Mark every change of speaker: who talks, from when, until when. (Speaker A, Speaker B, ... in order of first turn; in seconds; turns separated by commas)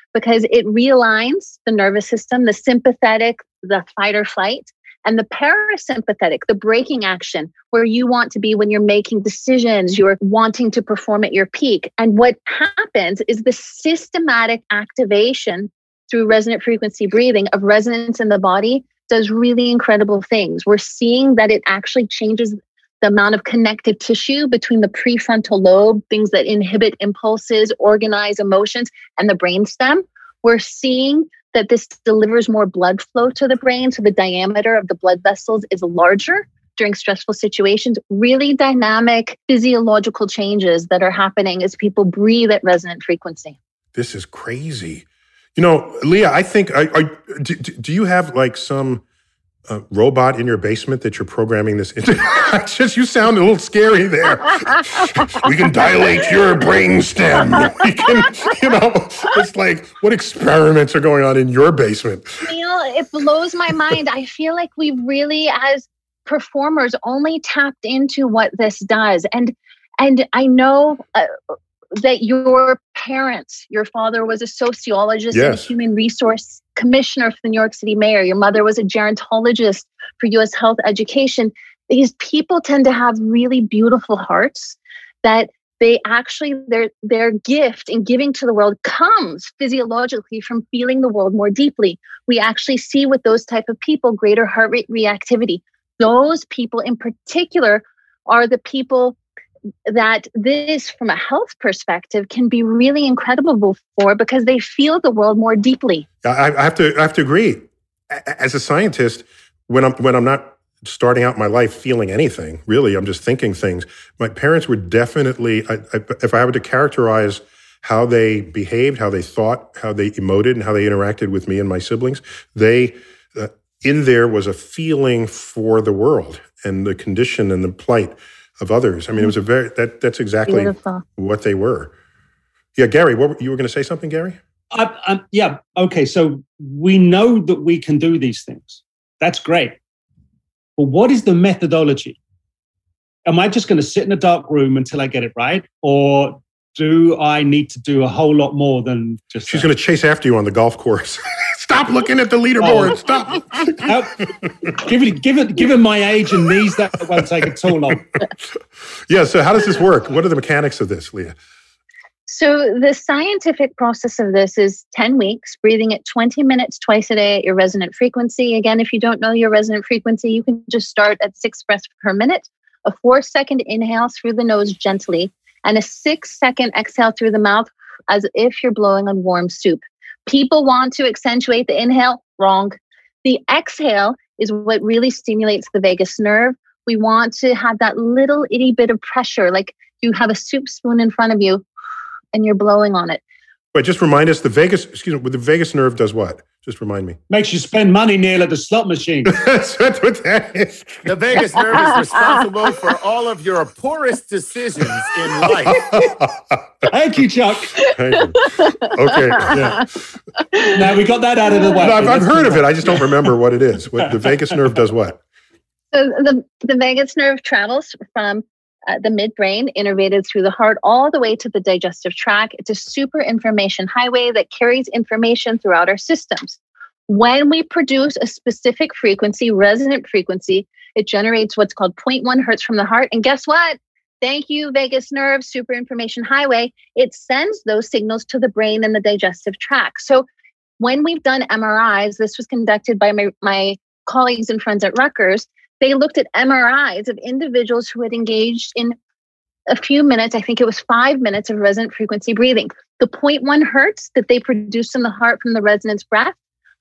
Speaker A: 0.1-43.6, Speaker B: 44.0-45.0, Speaker B: 45.6-49.0, Speaker B: 49.7-62.5, Speaker A: 62.4-71.3, Speaker A: 72.0-99.2, Speaker B: 75.3-75.7, Speaker A: 99.9-106.1, Speaker B: 106.2-131.9, Speaker A: 130.5-131.0, Speaker B: 132.8-134.4, Speaker C: 134.7-139.8, Speaker C: 140.8-142.2, Speaker C: 143.3-149.7, Speaker B: 149.5-153.9, Speaker C: 152.6-153.0, Speaker C: 153.7-158.1, Speaker B: 159.1-161.4, Speaker A: 162.3-191.7, Speaker A: 192.3-193.2, Speaker B: 193.7-197.2, Speaker C: 197.3-199.4, Speaker B: 199.3-201.1, Speaker D: 201.1-205.8, Speaker B: 205.6-206.9, Speaker C: 206.9-207.9, Speaker B: 207.9-209.9, Speaker A: 209.3-209.8, Speaker C: 210.7-213.2, Speaker B: 211.8-215.2, Speaker A: 215.9-240.3, Speaker A: 240.8-249.0, Speaker A: 249.7-256.4